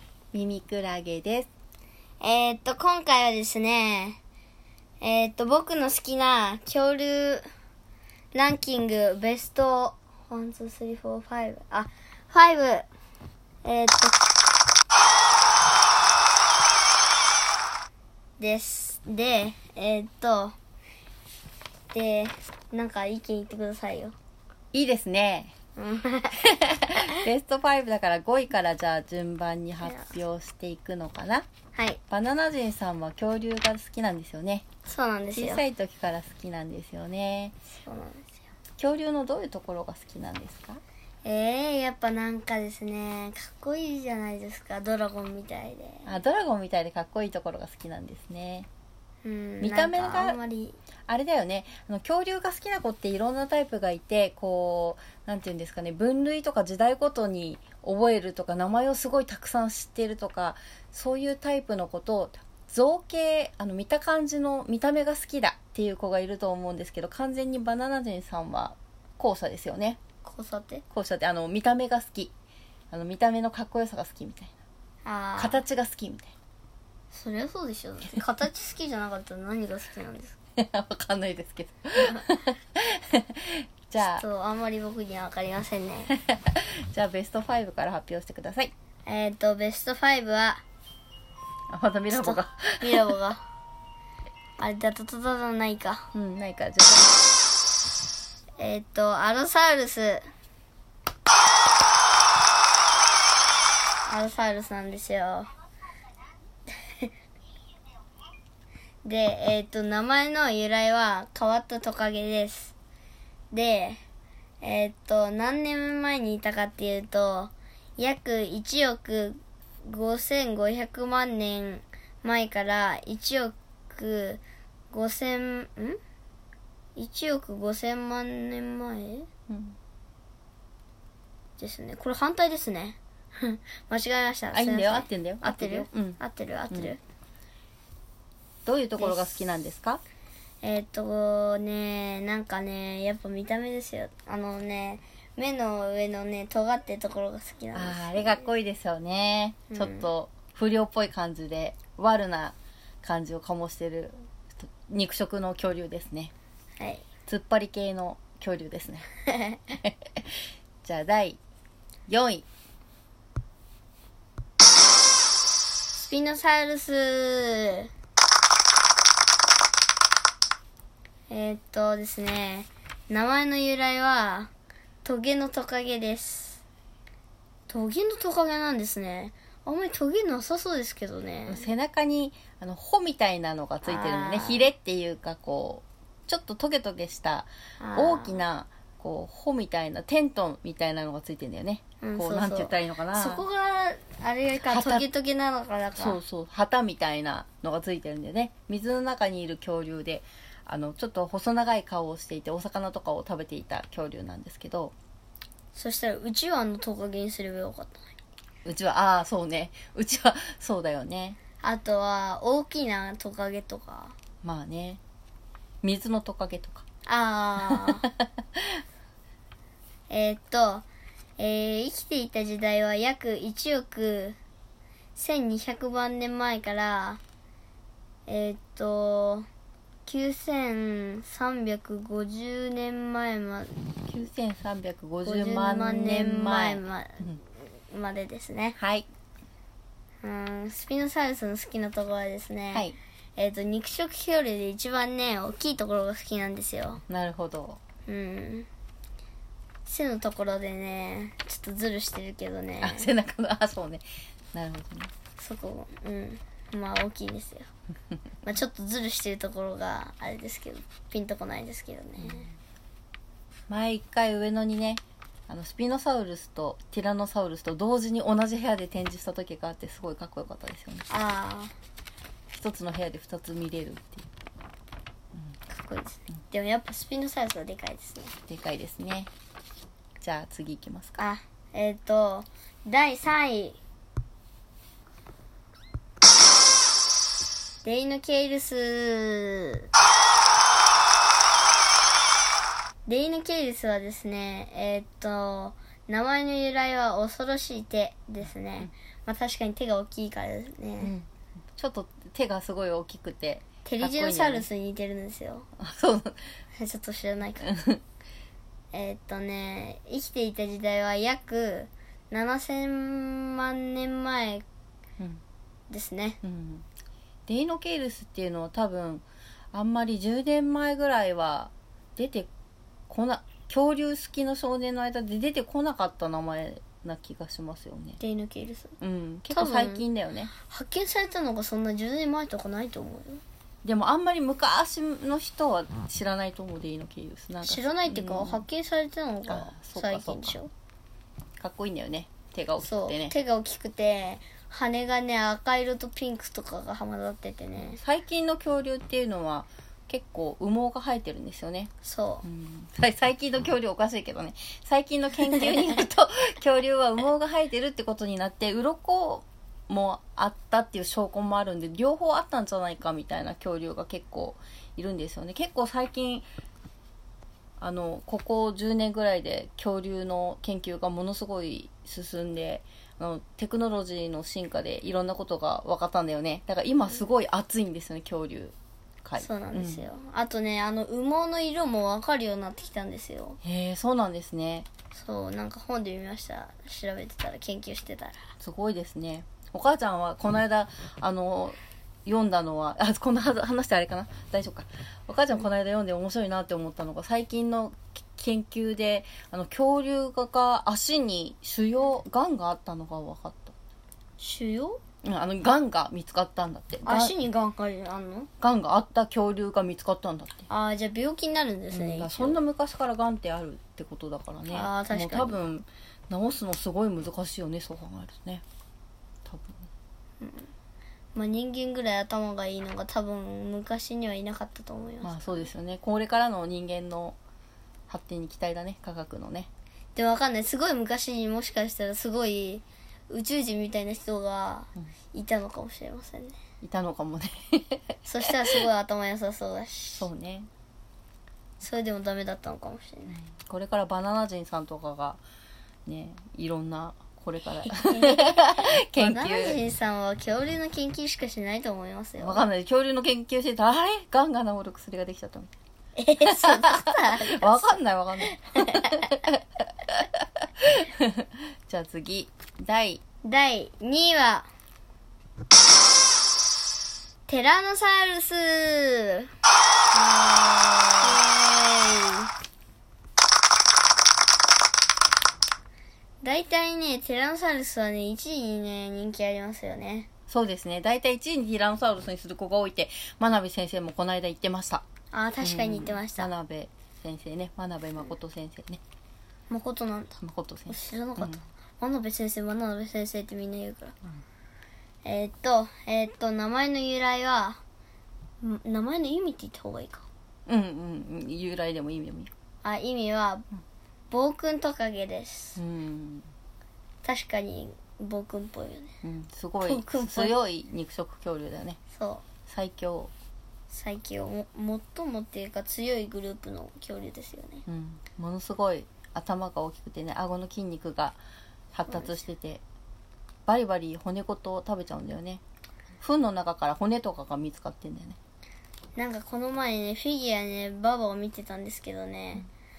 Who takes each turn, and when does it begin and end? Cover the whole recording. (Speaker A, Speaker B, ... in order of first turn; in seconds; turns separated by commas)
Speaker A: 0.3-1.5, Speaker B: 2.2-4.2, Speaker B: 5.0-7.5, Speaker B: 8.3-12.8, Speaker B: 13.6-14.3, Speaker B: 18.4-20.5, Speaker B: 21.9-24.1, Speaker A: 24.7-25.5, Speaker B: 25.8-27.1, Speaker A: 26.4-31.5, Speaker B: 29.8-30.1, Speaker B: 31.7-32.0, Speaker A: 32.1-34.6, Speaker B: 34.9-35.6, Speaker A: 35.3-37.5, Speaker B: 37.8-38.4, Speaker A: 38.8-40.8, Speaker B: 41.2-46.1, Speaker A: 46.0-48.7, Speaker B: 49.2-50.8, Speaker A: 49.6-50.4, Speaker A: 51.1-70.0, Speaker B: 70.2-70.8, Speaker A: 70.9-72.3, Speaker A: 72.9-74.5, Speaker B: 75.0-75.6, Speaker A: 75.4-76.3, Speaker B: 77.1-80.4, Speaker A: 80.6-84.2, Speaker B: 84.0-86.1, Speaker A: 86.1-88.7, Speaker B: 89.0-90.6, Speaker A: 91.7-93.2, Speaker B: 92.1-93.4, Speaker B: 94.6-96.1, Speaker A: 96.1-97.2, Speaker B: 98.6-100.2, Speaker B: 104.0-105.5, Speaker B: 109.0-112.7, Speaker B: 113.5-114.0, Speaker B: 114.6-126.0, Speaker B: 127.0-129.3, Speaker A: 129.5-129.8, Speaker B: 131.6-137.0, Speaker A: 134.5-136.2, Speaker A: 138.6-140.0, Speaker B: 139.0-139.5, Speaker B: 140.6-148.5, Speaker A: 147.7-156.3, Speaker B: 149.7-150.1, Speaker B: 156.8-157.1, Speaker A: 157.2-159.1, Speaker B: 159.2-159.8, Speaker A: 159.8-161.4, Speaker A: 162.1-162.4, Speaker B: 165.9-167.9, Speaker B: 171.3-174.5, Speaker B: 175.0-176.6, Speaker B: 177.7-181.7, Speaker A: 181.5-193.4, Speaker B: 183.8-184.7, Speaker B: 187.8-188.4, Speaker B: 192.0-196.2, Speaker A: 194.6-195.1, Speaker A: 196.0-204.9, Speaker B: 205.7-208.1, Speaker A: 208.6-211.4, Speaker B: 211.6-214.1, Speaker A: 214.4-215.0, Speaker A: 215.8-216.8, Speaker B: 217.1-218.1, Speaker A: 217.7-218.8, Speaker B: 220.1-220.8, Speaker B: 221.4-224.4, Speaker B: 225.1-227.2, Speaker B: 228.3-229.4, Speaker B: 230.1-233.8, Speaker A: 234.1-237.3, Speaker B: 235.2-238.8, Speaker A: 238.8-239.1, Speaker B: 240.2-247.0, Speaker A: 247.1-247.8, Speaker B: 248.1-248.7, Speaker B: 249.8-253.1, Speaker A: 252.8-255.1, Speaker B: 255.4-257.7, Speaker B: 258.4-262.5, Speaker A: 262.2-262.4, Speaker A: 263.7-271.1, Speaker B: 271.1-271.7, Speaker A: 272.5-274.2, Speaker B: 275.7-278.4, Speaker A: 278.5-279.3, Speaker A: 280.2-281.2, Speaker B: 281.2-283.8, Speaker B: 287.8-289.9, Speaker B: 293.1-301.1, Speaker A: 301.0-304.6, Speaker B: 303.8-305.7, Speaker A: 305.8-306.4, Speaker B: 306.8-307.7, Speaker A: 307.6-308.0, Speaker B: 308.9-314.6, Speaker B: 315.9-316.4, Speaker A: 316.4-316.8, Speaker A: 317.5-322.5, Speaker A: 323.1-328.2, Speaker B: 328.2-329.0, Speaker A: 329.0-330.5, Speaker B: 329.5-330.0, Speaker B: 330.6-333.4, Speaker A: 333.8-338.6, Speaker B: 337.6-340.7, Speaker A: 339.5-340.6, Speaker A: 341.6-343.3, Speaker B: 342.8-348.0, Speaker A: 347.8-351.9, Speaker B: 352.0-352.4, Speaker A: 352.4-366.4, Speaker A: 367.8-380.0, Speaker B: 379.4-383.6, Speaker A: 383.6-384.9, Speaker B: 385.1-388.5, Speaker A: 388.6-403.7, Speaker B: 404.4-405.0, Speaker A: 405.2-407.3, Speaker B: 407.0-408.5, Speaker A: 408.6-410.7, Speaker B: 410.7-412.6, Speaker A: 411.9-418.6, Speaker B: 414.7-415.6, Speaker A: 419.4-419.9, Speaker B: 420.4-420.7, Speaker B: 421.3-425.7, Speaker A: 425.2-427.4, Speaker A: 428.1-429.7, Speaker B: 430.1-436.6, Speaker A: 436.8-438.8, Speaker B: 438.2-440.3, Speaker A: 440.2-440.7, Speaker B: 441.8-443.4, Speaker A: 443.5-445.4, Speaker A: 446.1-449.8, Speaker B: 447.8-452.6, Speaker A: 452.4-455.7, Speaker B: 456.1-457.9, Speaker A: 456.4-463.2, Speaker B: 458.5-459.4, Speaker B: 463.4-464.7, Speaker B: 467.5-469.5, Speaker A: 470.1-471.4, Speaker B: 471.2-472.5, Speaker B: 476.4-480.3, Speaker A: 480.5-485.0, Speaker B: 485.3-486.5, Speaker A: 485.6-489.0, Speaker B: 489.7-494.1, Speaker A: 490.4-491.6, Speaker B: 495.2-497.8, Speaker B: 498.6-500.2, Speaker A: 500.7-502.5, Speaker B: 502.8-503.6, Speaker B: 504.3-505.8, Speaker A: 505.8-506.5, Speaker B: 507.2-509.1, Speaker A: 509.2-512.0, Speaker B: 509.8-510.6, Speaker B: 512.1-512.4, Speaker A: 512.7-513.3, Speaker B: 513.9-517.8, Speaker A: 517.9-521.4, Speaker A: 521.9-522.8, Speaker B: 522.1-522.4, Speaker A: 523.7-525.6, Speaker A: 526.2-528.4, Speaker B: 529.1-532.6